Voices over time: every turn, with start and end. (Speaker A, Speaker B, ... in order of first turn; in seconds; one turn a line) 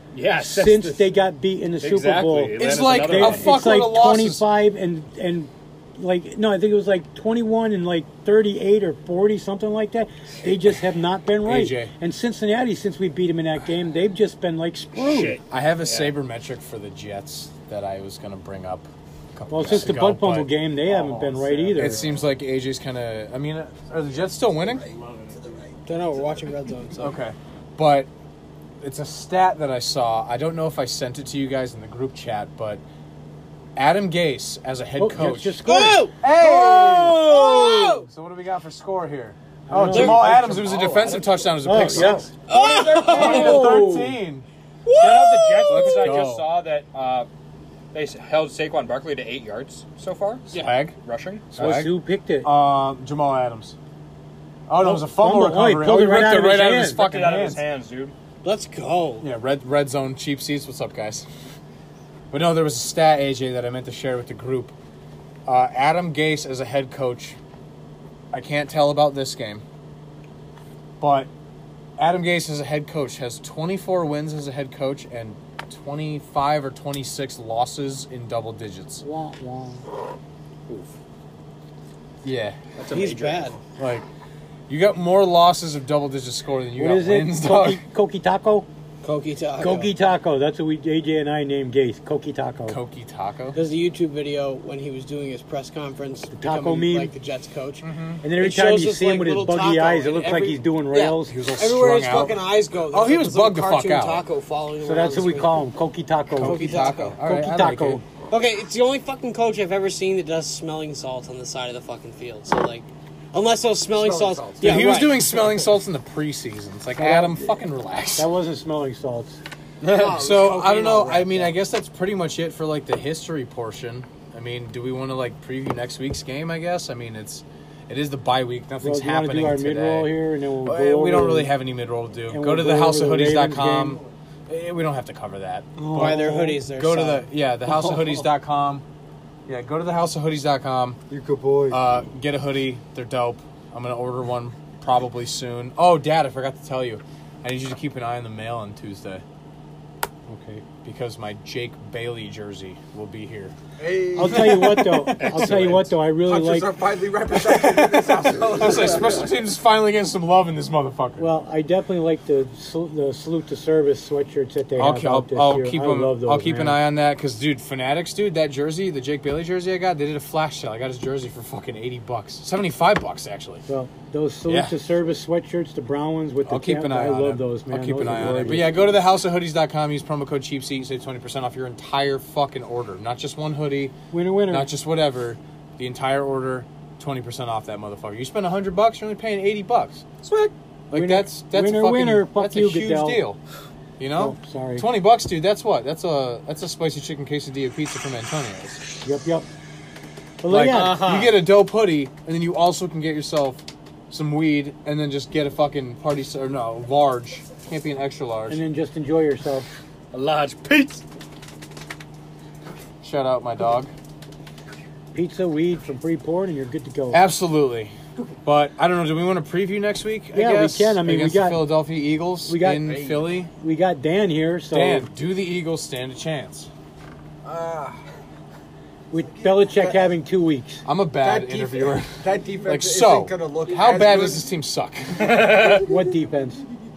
Speaker A: 0.1-1.1
Speaker B: 0.3-15.4
Speaker A: 1.8-3.6
Speaker C: 2.6-4.4
Speaker C: 10.4-10.8
Speaker C: 11.4-11.9
Speaker A: 14.9-16.1
Speaker C: 15.5-20.5
Speaker B: 19.5-22.1
Speaker D: 21.1-21.6
Speaker A: 21.6-22.0
Speaker C: 21.7-24.9
Speaker D: 24.5-25.8
Speaker E: 25.9-27.2
Speaker C: 27.0-28.1
Speaker C: 28.8-32.8
Speaker C: 33.8-42.3
Speaker B: 35.0-36.1
Speaker E: 35.6-38.0
Speaker B: 39.7-40.7
Speaker A: 39.9-43.7
Speaker B: 41.6-42.3
Speaker E: 42.5-43.7
Speaker B: 43.0-44.2
Speaker C: 43.0-44.5
Speaker E: 44.9-46.2
Speaker A: 44.9-47.3
Speaker C: 45.7-46.5
Speaker A: 47.9-51.5
Speaker C: 50.5-50.9
Speaker C: 51.5-51.9
Speaker B: 51.5-52.5
Speaker C: 52.4-53.7
Speaker C: 54.7-57.6
Speaker B: 54.8-57.0
Speaker A: 56.9-58.1
Speaker E: 58.4-59.3
Speaker C: 59.2-61.3
Speaker C: 62.3-64.7
Speaker C: 65.5-67.4
Speaker C: 68.3-69.6
Speaker C: 71.0-71.3
Speaker C: 72.0-79.0
Speaker B: 79.0-79.8
Speaker C: 82.2-82.6
Speaker A: 82.8-83.5
Speaker E: 82.9-83.6
Speaker C: 83.8-84.1
Speaker C: 84.7-87.8
Speaker B: 86.8-88.7
Speaker E: 89.0-89.9
Speaker B: 89.6-92.8
Speaker C: 92.7-93.6
Speaker E: 93.5-97.8
Speaker B: 96.3-97.1
Speaker C: 97.8-98.2
Speaker B: 98.2-101.3
Speaker E: 98.4-105.7
Speaker C: 101.2-102.4
Speaker C: 102.9-104.2
Speaker B: 104.8-108.0
Speaker C: 106.4-108.0
Speaker E: 106.4-107.2
Speaker E: 108.3-115.5
Speaker D: 113.9-114.9
Speaker C: 114.6-118.3
Speaker B: 117.0-117.5
Speaker B: 118.2-119.4
Speaker E: 119.8-121.6
Speaker C: 120.0-130.1
Speaker B: 128.8-131.5
Speaker C: 130.6-138.8
Speaker B: 132.3-134.0
Speaker E: 135.8-138.2
Speaker C: 139.5-141.0
Speaker D: 141.1-141.8
Speaker C: 141.7-149.2
Speaker B: 150.3-150.6
Speaker C: 150.8-153.5
Speaker D: 153.8-154.7
Speaker B: 154.2-156.8
Speaker C: 154.3-155.5
Speaker A: 155.2-155.9
Speaker D: 156.2-159.3
Speaker C: 157.3-161.3
Speaker B: 161.2-166.8
Speaker C: 164.8-173.6
Speaker B: 173.7-178.9
Speaker C: 174.5-174.8
Speaker C: 176.4-183.9
Speaker B: 184.1-184.7
Speaker C: 184.5-193.4
Speaker B: 190.9-193.2
Speaker C: 194.0-198.8
Speaker B: 194.1-194.9
Speaker B: 199.0-199.4
Speaker B: 200.4-201.3
Speaker C: 200.5-208.6
Speaker E: 200.7-201.2
Speaker B: 208.5-209.7
Speaker A: 210.1-211.0
Speaker C: 213.0-213.9
Speaker B: 215.1-217.2
Speaker C: 217.1-223.5
Speaker B: 220.3-221.7
Speaker B: 222.4-225.1
Speaker D: 222.8-223.3
Speaker C: 224.7-226.7
Speaker D: 227.4-228.0
Speaker B: 229.1-230.8
Speaker C: 230.8-235.5
Speaker D: 231.2-234.4
Speaker A: 235.2-235.8
Speaker B: 235.7-236.6